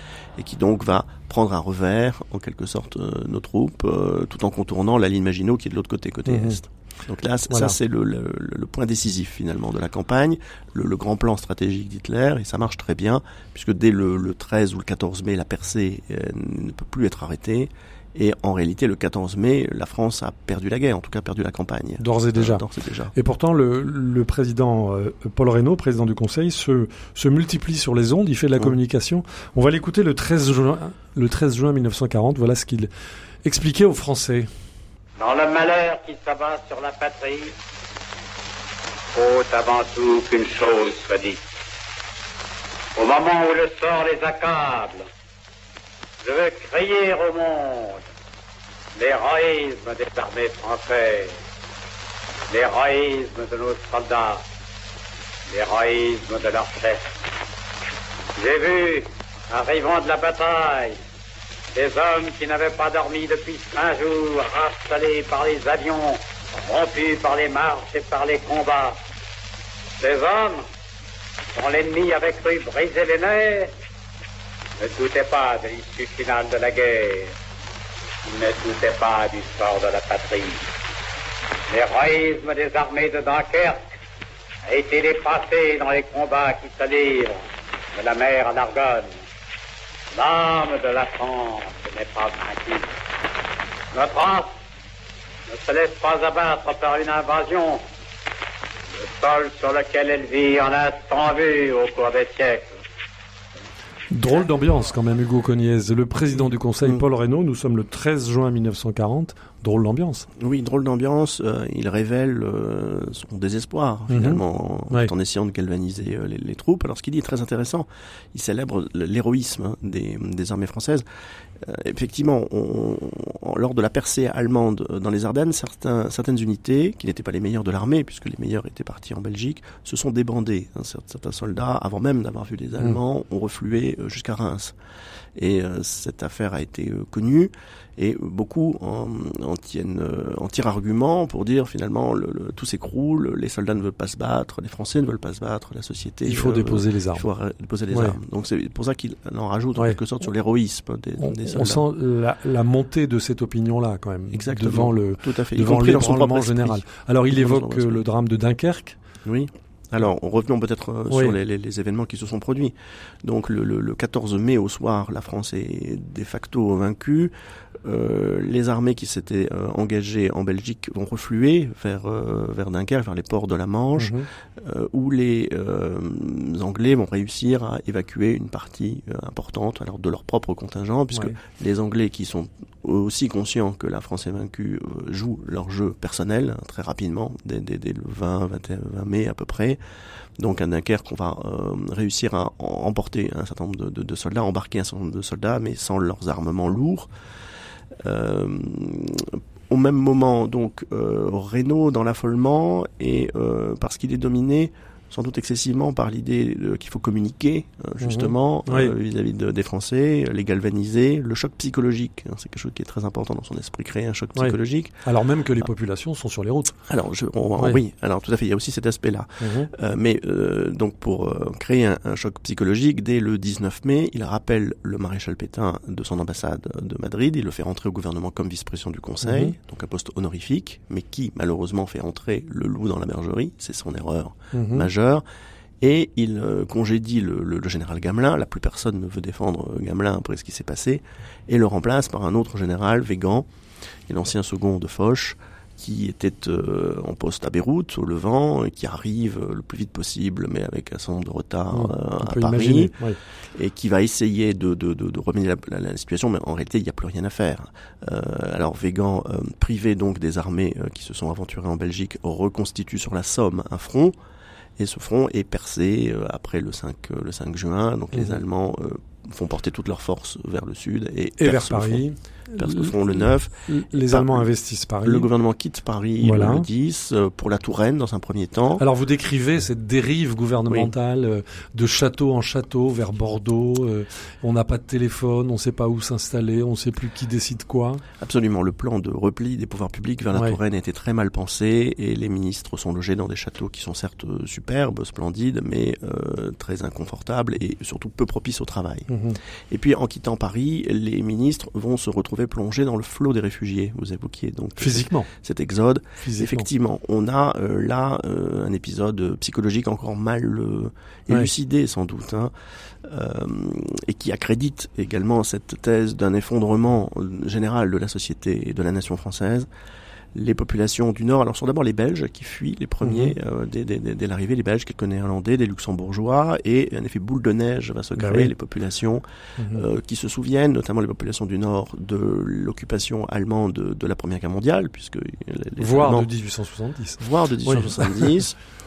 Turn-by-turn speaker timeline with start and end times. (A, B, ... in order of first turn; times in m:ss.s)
0:00.4-0:23.1 A
0:06.3-0:06.6 B
0:07.5-0:07.8 B
0:22.0-0:32.9 B
0:33.4-0:34.5 B
0:35.2-0:37.5 C
0:39.2-0:41.4 C
0:43.0-0:45.0 C
0:46.2-0:48.0 C
0:49.0-0:51.4 C
0:52.5-0:54.4 C
0:55.5-0:57.0 C
0:58.4-1:01.0 C
1:01.8-1:09.0 C
1:10.0-1:10.6 C
1:11.6-1:13.7 C
1:14.8-1:17.3 C
1:18.2-1:20.6 C
1:21.7-1:23.8 C
1:24.7-1:29.2 C
1:30.1-1:32.9 C
1:33.9-1:34.6 C
1:35.5-1:37.8 C
1:39.0-1:42.7 C
1:44.1-1:50.3 B
1:50.4-2:01.0 A
1:54.1-1:55.1 B
2:01.6-2:14.8 A
2:15.4-2:31.8 A
2:26.2-2:27.3 B
2:27.9-2:28.2 B
2:31.2-2:39.0 B
2:34.3-2:38.0 A
2:39.2-2:47.3 A
2:47.8-3:09.8 A
2:54.0-2:54.3 B
3:10.4-3:17.1 A
3:18.0-3:34.9 A
3:28.0-3:28.9 B
3:34.4-3:36.8 B
3:36.9-3:55.2 A
3:39.4-3:39.7 B
3:49.2-3:49.6 B
3:54.5-3:54.9 B
3:55.8-4:03.5 A
4:04.1-4:13.0 A
4:11.7-4:13.2 B
4:13.5-4:24.2 A
4:24.8-4:32.0 A
4:28.1-4:28.4 B
4:31.4-4:35.3 B
4:32.6-4:34.5 A
4:35.0-4:38.8 A
4:36.2-4:36.7 B
4:38.8-4:48.0 B
4:40.7-4:40.9 A
4:48.2-4:59.1 A
4:59.1-4:59.4 B
4:59.7-5:12.5 A
5:04.8-5:05.3 B
5:06.2-5:06.7 B
5:13.0-5:19.7 A
5:20.3-5:36.3 A
5:23.0-5:23.4 B
5:28.2-5:28.5 B
5:29.6-5:29.8 B
5:35.8-5:38.3 B
5:37.2-5:38.6 A